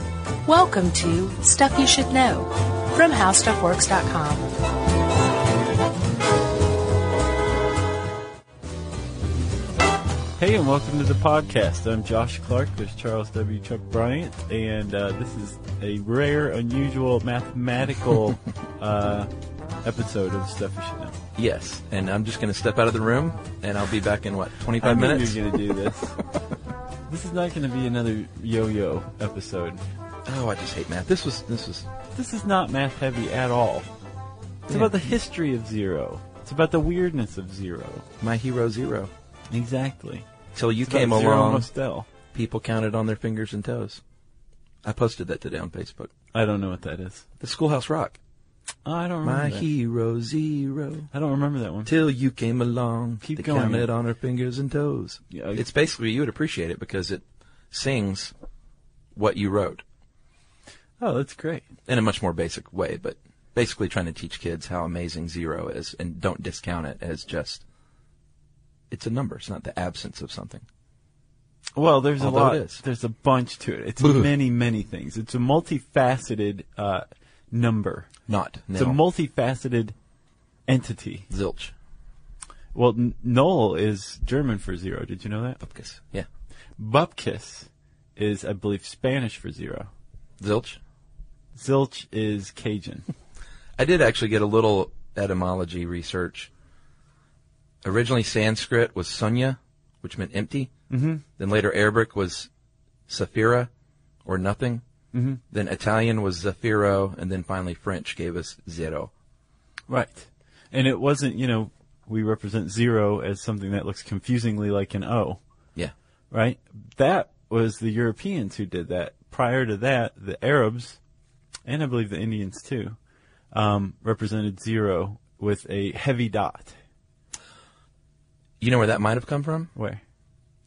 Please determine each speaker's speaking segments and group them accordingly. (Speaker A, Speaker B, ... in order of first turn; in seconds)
Speaker A: 0.5-4.5
Speaker B: 10.4-19.3, 19.8-21.2, 24.8-26.2, 27.1-29.8, 32.1-33.9, 34.7-38.1, 39.5-40.3, 40.9-42.1, 46.3-47.2, 48.9-49.7, 51.1-51.9, 53.2-53.9, 55.3-55.6, 61.0-61.6, 71.8-78.1, 78.8-80.0, 80.7-81.3, 82.7-85.6, 86.8-89.9, 91.5-93.1, 100.9-101.2, 105.1-105.4, 109.9-115.4, 116.3-121.0, 121.7-123.0, 123.5-126.8, 129.8-130.0
Speaker C: 21.4-25.4, 30.3-31.9, 34.7-35.1, 38.2-39.1, 40.5-41.7, 42.3-44.0, 44.8-46.1, 47.4-48.2, 49.2-51.1, 51.9-58.3, 59.1-59.8, 61.9-67.6, 68.9-70.7, 72.2-72.8, 74.0-74.3, 78.3-79.0, 81.3-81.7, 85.6-86.3, 90.4-90.8, 93.8-96.5, 97.8-100.7, 101.4-102.5, 103.1-103.7, 104.2-104.8, 105.5-109.1, 128.6-129.7